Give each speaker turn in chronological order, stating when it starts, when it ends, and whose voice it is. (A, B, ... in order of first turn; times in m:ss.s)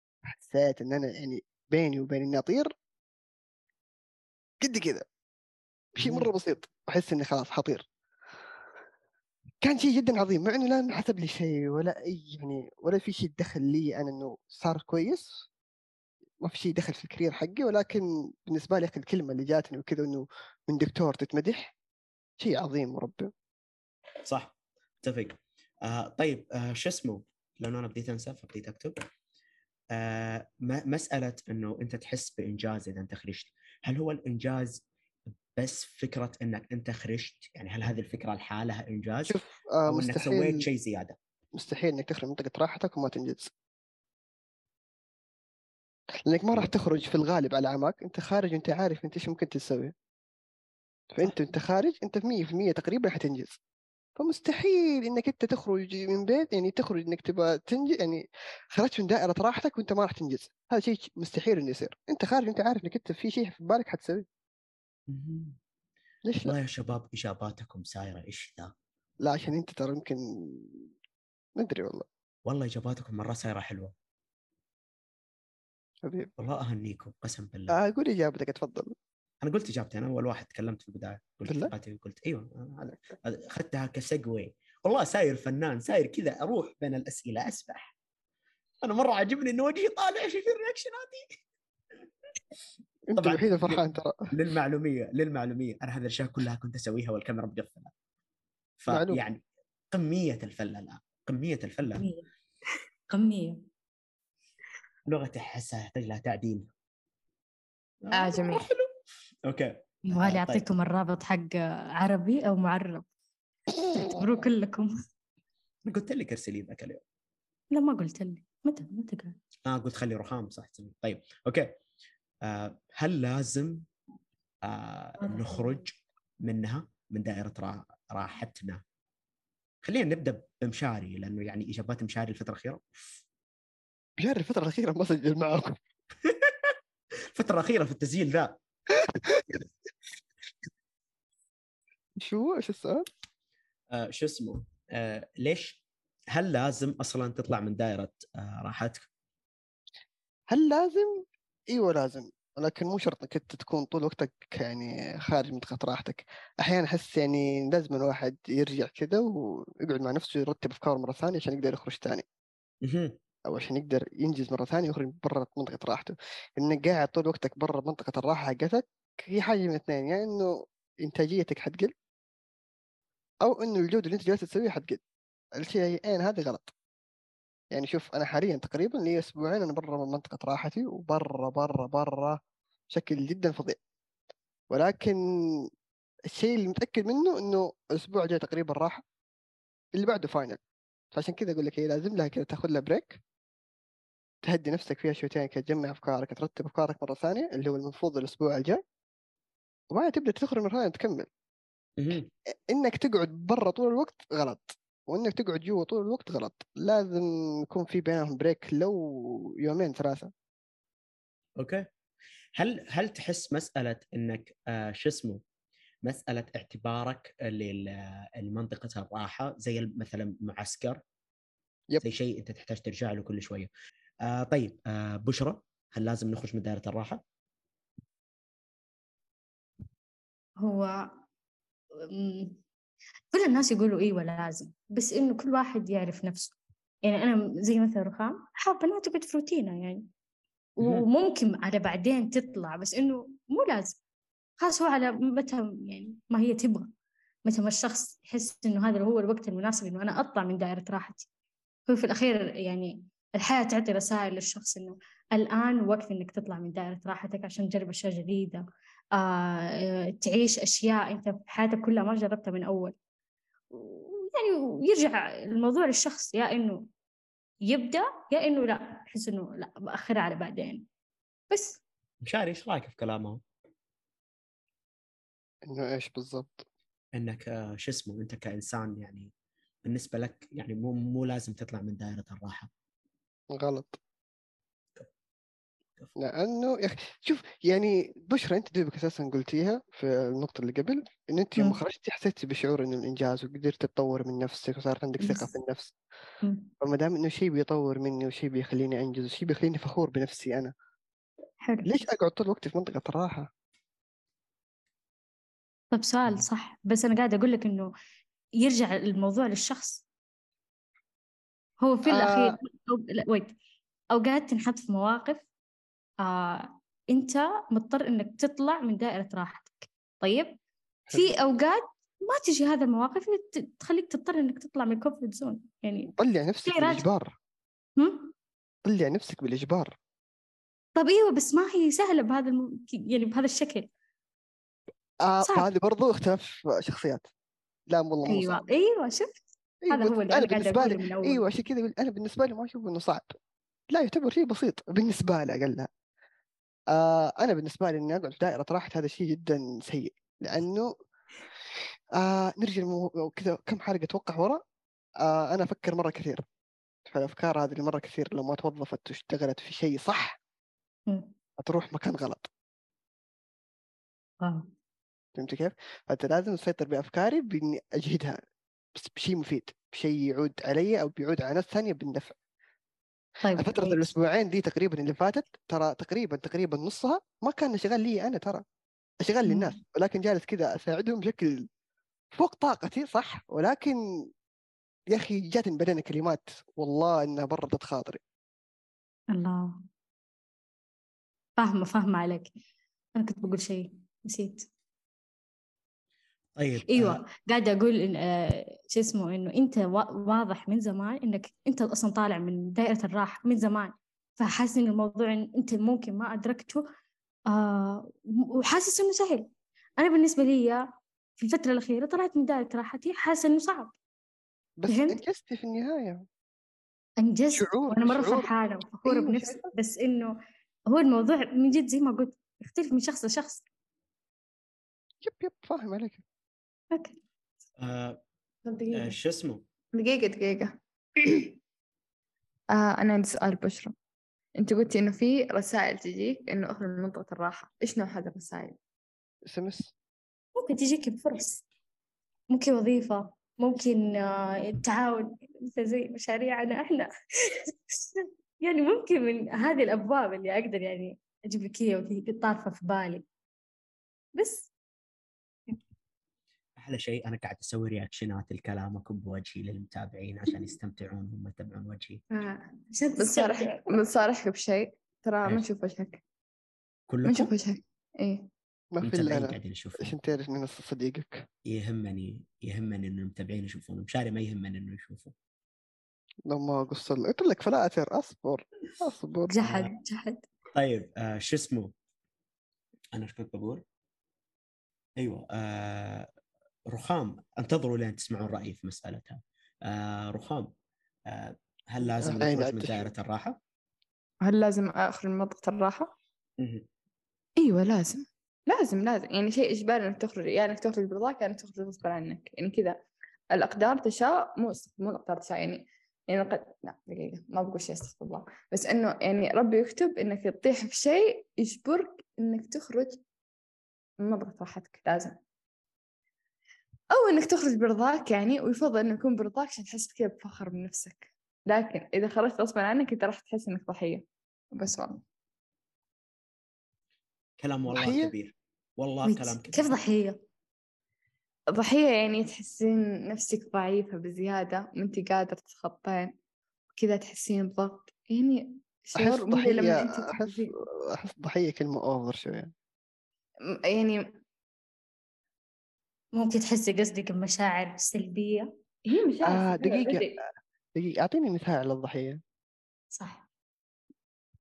0:00.2-0:02.7 A
0:04.6-0:05.0 A
0:06.0-0:07.8 A
0:06.0-0:06.3 B
0:09.6-0:15.4 A
0:16.4-0:21.7 A
0:22.4-0:23.3 A
0:24.2-0:29.0 B
0:29.9-0:34.8 B
0:35.6-0:39.3 B
0:39.3-0:40.6 A
0:39.8-0:41.2 B
0:41.5-0:43.5 A
0:46.2-0:49.9 A
0:51.1-0:53.6 A
0:54.2-1:04.2 A
1:05.1-1:05.6 B
1:06.2-1:06.5 A
1:06.4-1:08.7 B
1:09.2-1:10.9 A
1:11.6-1:12.0 A
1:12.5-1:13.9 B
1:16.0-1:16.3 A
1:16.4-1:17.8 B
1:17.7-1:18.9 A
1:19.4-1:27.9 B
1:21.4-1:21.7 A
1:28.8-1:31.4 B
1:33.1-1:34.2 A
1:33.2-1:37.9 B
1:38.8-1:42.0 B
1:38.9-1:39.2 A
1:42.0-1:42.2 C
1:43.1-1:43.6 C
1:45.1-1:46.7 B
1:48.0-1:48.9 B
1:48.1-1:48.7 D
1:49.4-1:50.6 B
1:50.1-1:53.0 C
1:53.9-1:54.9 C
1:55.8-1:57.0 B
1:57.7-1:59.4 C
1:59.6-2:01.7 B
2:02.4-2:03.8 B
2:04.6-2:08.8 B
2:05.3-2:05.7 C
2:09.8-2:12.8 B
2:14.2-2:15.8 A
2:16.2-2:16.7 B
2:17.3-2:18.6 B
2:19.0-2:19.6 A
2:22.2-2:23.0 A
2:23.9-2:25.8 B
2:26.3-2:29.1 B
2:30.5-2:42.2 A
2:42.8-2:43.2 B
2:43.5-2:51.9 A
2:53.4-2:55.0 A
2:55.6-2:56.7 A
2:57.7-3:02.4 A
3:02.9-3:03.8 A
3:04.7-3:05.2 A
3:06.3-3:09.0 A
3:09.9-3:10.6 A
3:11.1-3:13.2 A
3:14.4-3:18.8 A
3:19.9-3:21.3 A
3:22.0-3:22.3 B
3:22.7-3:30.3 A
3:31.6-3:31.9 B
3:32.6-3:35.4 B
3:36.0-3:41.0 B
3:42.0-3:43.7 B
3:44.2-3:47.2 B
3:50.6-3:51.2 C
3:52.0-3:52.6 C
3:53.3-4:00.1 C
4:00.8-4:04.0 C
4:04.6-4:06.9 C
4:07.4-4:11.3 C
4:11.9-4:18.6 C
4:19.2-4:22.9 C
4:23.7-4:26.9 C
4:27.6-4:30.8 C
4:31.5-4:31.8 D
4:32.2-4:33.4 B
4:35.6-4:36.6 A
4:37.1-4:39.3 B
4:39.8-4:42.7 B
4:43.5-4:44.0 A
4:46.2-4:55.9 A
4:55.2-4:55.5 C
4:56.4-4:56.7 C
4:56.8-5:00.7 A
5:01.6-5:01.9 C
5:01.8-5:03.5 A
5:05.9-5:07.9 C
5:08.6-5:10.0 C
5:11.8-5:13.5 C
5:12.0-5:12.6 A
5:14.1-5:15.4 C
5:16.2-5:20.6 C
5:21.1-5:21.4 A
5:21.1-5:26.1 C
5:26.2-5:27.3 A
5:26.6-5:27.0 C
5:28.0-5:28.3 C
5:28.8-5:29.9 A
5:31.0-5:33.9 C
5:35.2-5:37.2 A
5:37.9-5:38.6 A
5:38.2-5:39.3 C
5:39.8-5:43.4 A
5:39.9-5:41.4 C
5:43.9-5:45.9 A
5:46.9-5:50.9 A
5:52.2-5:54.6 A
5:55.2-5:56.4 A
5:57.0-6:00.4 A
6:01.1-6:01.3 C
6:01.6-6:02.5 A
6:04.4-6:04.7 C
6:05.3-6:08.4 A
6:08.9-6:12.4 A
6:13.4-6:14.1 C
6:13.6-6:18.6 A
6:19.2-6:21.6 A
6:19.4-6:19.7 C
6:22.3-6:24.0 A
6:25.1-6:28.2 A
6:29.3-6:29.8 C
6:31.6-6:32.5 C
6:33.1-6:34.7 C
6:36.6-6:37.2 B
6:36.9-6:46.9 C
6:47.5-6:50.8 C
6:51.4-6:53.9 C
6:54.8-6:56.2 A
6:54.9-6:55.2 C
6:57.2-7:00.3 C
6:57.5-6:58.5 A
6:59.0-6:59.7 A
7:00.9-7:03.6 C
7:05.2-7:06.2 A
7:06.9-7:07.2 C
7:07.8-7:08.2 B
7:08.6-7:09.1 D
7:08.9-7:09.6 B
7:09.9-7:11.6 D
7:12.7-7:13.9 D
7:14.6-7:18.8 D
7:19.5-7:19.9 A
7:20.6-7:21.6 C
7:22.5-7:33.2 C
7:36.8-7:42.2 B
7:42.9-7:43.9 C
7:43.2-7:46.2 D
7:47.1-7:47.5 B
7:47.2-7:48.5 D
7:48.9-7:51.4 A
7:49.0-7:50.1 B
7:51.6-7:55.3 B
7:56.5-7:59.9 A
7:59.5-8:00.4 C
8:00.7-8:01.9 B
8:03.1-8:03.8 B
8:05.2-8:06.3 B
8:06.9-8:10.7 B
8:11.3-8:13.6 B
8:12.0-8:13.1 A
8:14.4-8:16.1 D
8:16.6-8:16.8 B
8:17.6-8:33.2 D
8:34.2-8:35.4 D
8:37.1-8:45.2 D
8:47.6-8:50.0 B
8:47.9-8:48.3 A
8:49.2-8:50.4 C
8:51.7-8:56.3 D
8:57.0-9:00.7 D
8:59.2-9:02.7 A
9:03.6-9:04.2 D
9:06.3-9:08.7 C
9:09.0-9:10.4 D
9:09.4-9:10.4 A
9:11.0-9:12.4 A
9:13.1-9:13.4 C